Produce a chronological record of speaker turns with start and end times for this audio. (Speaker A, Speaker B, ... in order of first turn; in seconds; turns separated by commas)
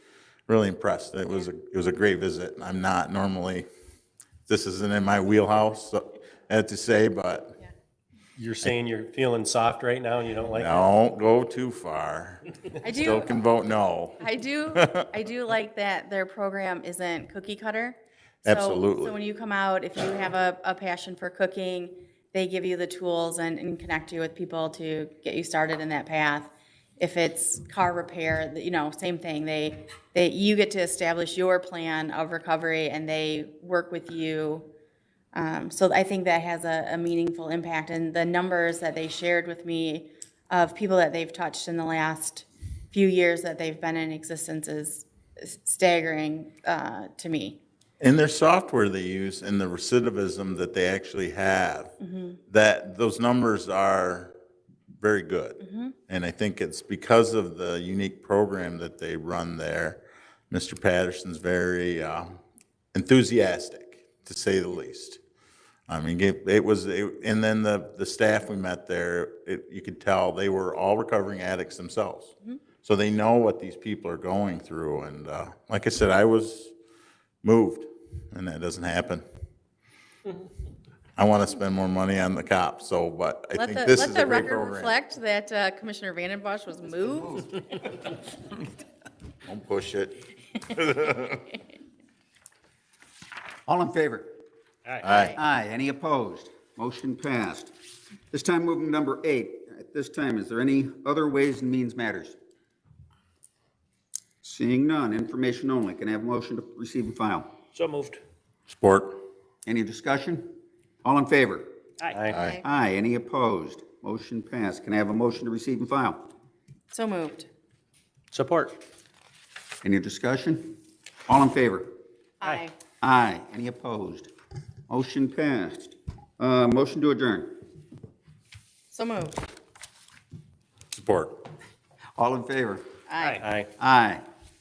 Speaker A: 0.5-3.7, Speaker A: 4.5-7.5, Speaker B: 8.4-10.8, Speaker A: 10.5-15.1, Speaker C: 12.8-13.4, Speaker C: 14.2-34.7, Speaker A: 18.4-19.1, Speaker C: 35.3-47.6, Speaker A: 48.0-51.9, Speaker C: 52.0-52.4, Speaker A: 52.5-54.3, Speaker A: 55.0-62.4, Speaker C: 55.6-55.9, Speaker A: 62.9-65.2, Speaker A: 65.9-76.7, Speaker A: 77.4-79.2, Speaker A: 81.2-85.0, Speaker C: 83.5-87.7, Speaker A: 89.5-91.4, Speaker D: 93.7-94.3, Speaker A: 95.0-95.4, Speaker D: 95.2-97.7, Speaker D: 98.3-102.4, Speaker D: 104.4-107.5, Speaker B: 107.7-108.2, Speaker A: 108.7-109.2, Speaker D: 109.6-110.5, Speaker D: 111.0-111.7, Speaker B: 112.0-112.4, Speaker C: 112.2-112.6, Speaker A: 112.3-112.6, Speaker D: 112.6-116.3, Speaker C: 116.9-117.5, Speaker B: 118.3-118.8, Speaker D: 119.8-121.9, Speaker C: 122.4-122.7, Speaker D: 123.0-124.3, Speaker D: 124.9-127.6, Speaker C: 128.9-129.5, Speaker A: 130.9-131.4, Speaker D: 132.2-132.9, Speaker C: 133.1-133.4, Speaker B: 133.2-133.7, Speaker D: 133.6-134.2